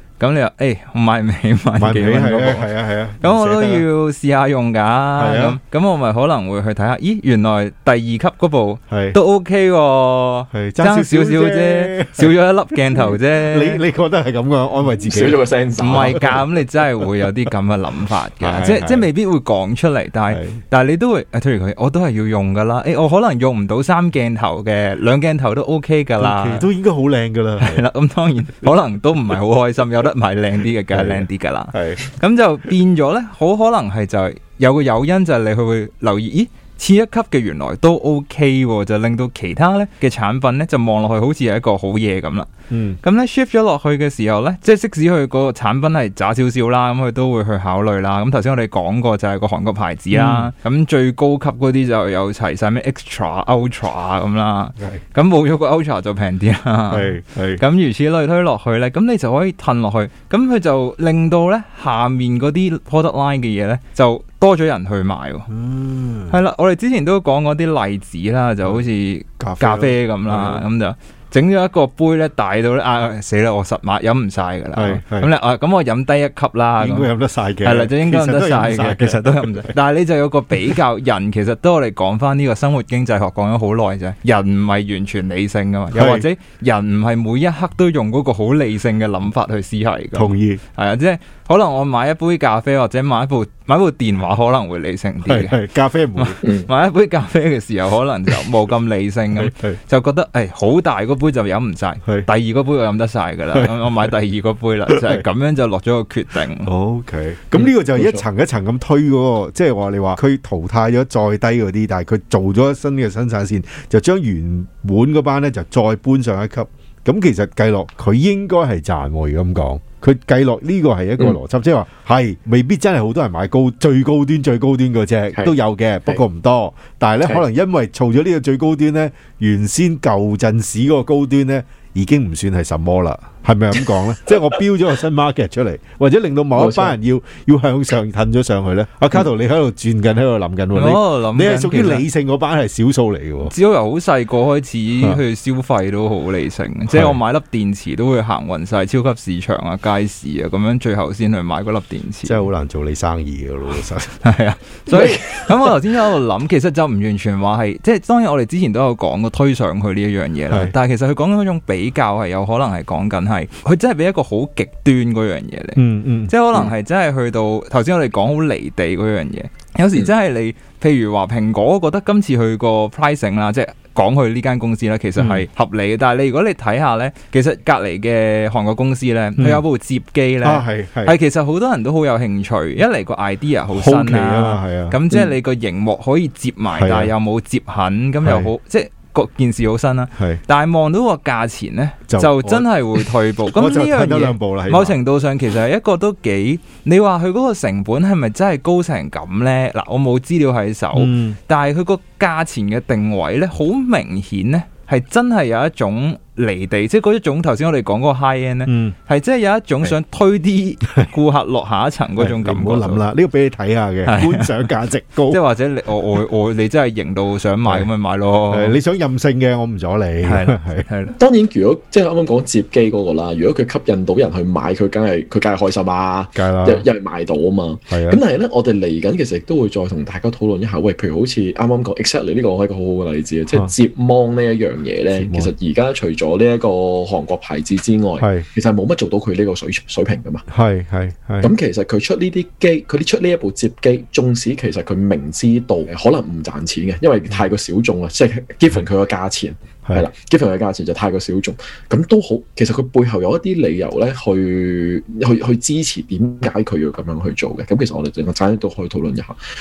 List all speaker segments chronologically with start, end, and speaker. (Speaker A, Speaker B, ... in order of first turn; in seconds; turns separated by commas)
Speaker A: 0.2-2.7, Speaker B: 1.8-3.9, Speaker A: 3.2-13.8, Speaker B: 5.2-5.6, Speaker B: 8.9-9.2, Speaker B: 10.5-12.3, Speaker B: 12.9-16.4, Speaker C: 15.1-16.3, Speaker A: 15.8-26.7, Speaker B: 18.4-19.1, Speaker B: 20.3-20.6, Speaker B: 26.2-27.8, Speaker A: 27.6-42.5, Speaker B: 30.9-32.1, Speaker B: 42.7-43.0, Speaker A: 43.0-65.5, Speaker B: 50.1-50.5, Speaker B: 56.9-57.6, Speaker B: 65.5-66.4, Speaker A: 66.3-77.1, Speaker B: 69.4-70.7, Speaker B: 74.7-75.3, Speaker B: 76.8-79.7, Speaker A: 77.6-95.6, Speaker B: 85.9-86.3, Speaker B: 90.1-90.6, Speaker B: 95.2-96.4, Speaker A: 96.2-106.7, Speaker B: 99.3-99.8, Speaker B: 103.5-104.0, Speaker B: 104.9-105.2, Speaker B: 106.6-143.5, Speaker C: 107.5-108.2, Speaker C: 136.6-137.0, Speaker A: 140.7-142.0, Speaker A: 143.4-152.5, Speaker B: 146.9-147.2, Speaker B: 152.2-154.2, Speaker A: 154.2-213.0, Speaker B: 154.9-155.3, Speaker B: 160.5-160.7, Speaker B: 165.8-166.3, Speaker B: 175.2-175.4, Speaker B: 179.4-179.6, Speaker B: 180.4-181.2, Speaker B: 183.7-185.2, Speaker B: 186.7-187.1, Speaker B: 188.2-188.5, Speaker B: 190.2-190.4, Speaker B: 192.1-195.0, Speaker B: 200.9-201.4, Speaker B: 208.7-209.0, Speaker B: 212.2-215.4, Speaker A: 214.0-214.6, Speaker A: 215.3-218.8, Speaker B: 218.5-220.8, Speaker A: 220.2-221.1, Speaker C: 221.2-240.5, Speaker B: 226.3-226.8, Speaker B: 227.9-228.2, Speaker B: 235.1-235.5, Speaker B: 238.2-238.5, Speaker B: 240.5-241.5, Speaker C: 241.4-259.4